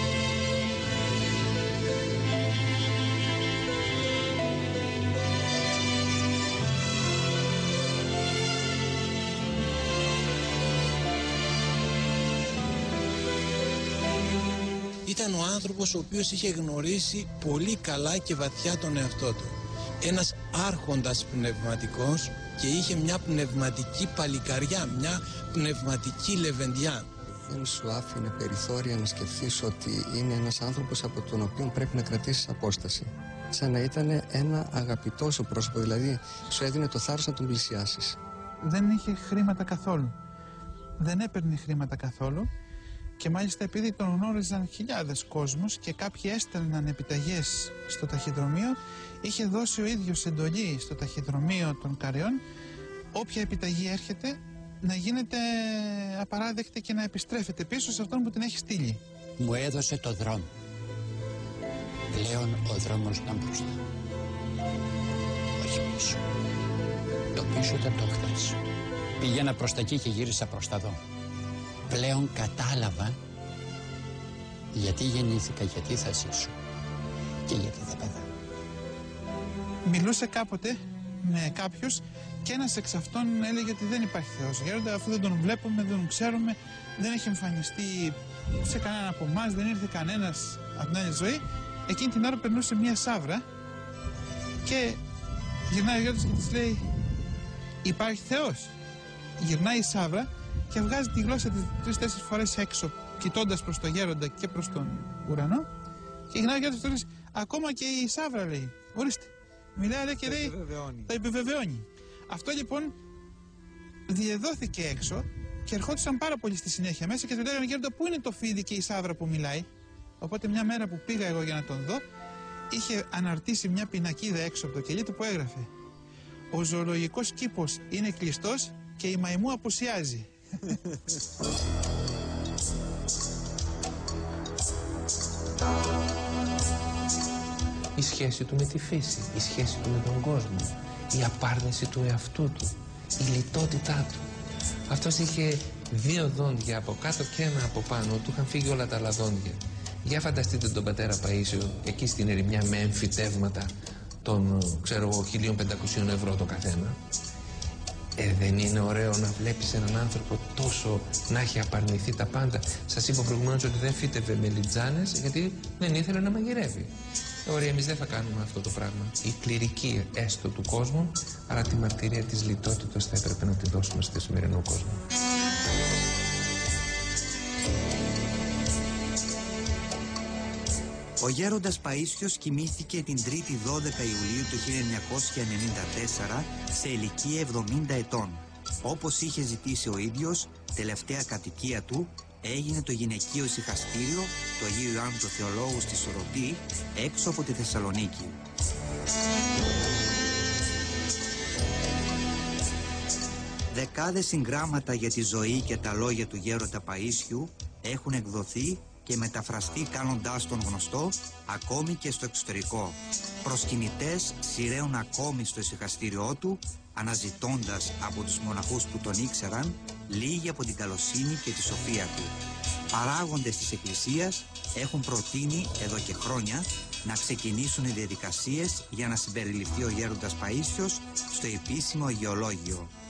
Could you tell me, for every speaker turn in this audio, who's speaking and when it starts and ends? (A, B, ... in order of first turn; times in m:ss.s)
0:15.0-0:27.1 A
0:27.5-0:38.2 B
0:38.6-0:40.1 C
0:41.0-0:42.5 C
0:43.2-0:52.4 C
0:53.1-0:59.0 C
0:59.4-1:00.5 D
1:02.1-1:03.8 D
1:05.6-1:06.2 D
1:07.3-1:08.6 D
1:09.2-1:11.0 D
1:11.9-1:13.2 D
1:14.7-1:16.5 D
1:17.5-1:18.3 D
1:19.8-1:33.4 C
1:34.6-1:35.0 C
1:35.7-1:36.8 C
1:37.8-1:38.7 C
1:39.4-1:45.7 C
1:46.3-1:52.9 C
1:50.2-1:51.1 E
1:54.1-1:59.7 C
2:00.2-2:02.0 C
2:02.7-2:05.7 C
2:06.5-2:10.3 C
2:18.0-2:24.2 F
2:24.9-2:33.7 F
2:34.2-2:37.0 F
2:38.2-2:46.9 F
2:47.4-2:55.0 F
3:01.2-3:18.4 E
3:23.7-3:42.4 E
3:42.9-3:52.9 E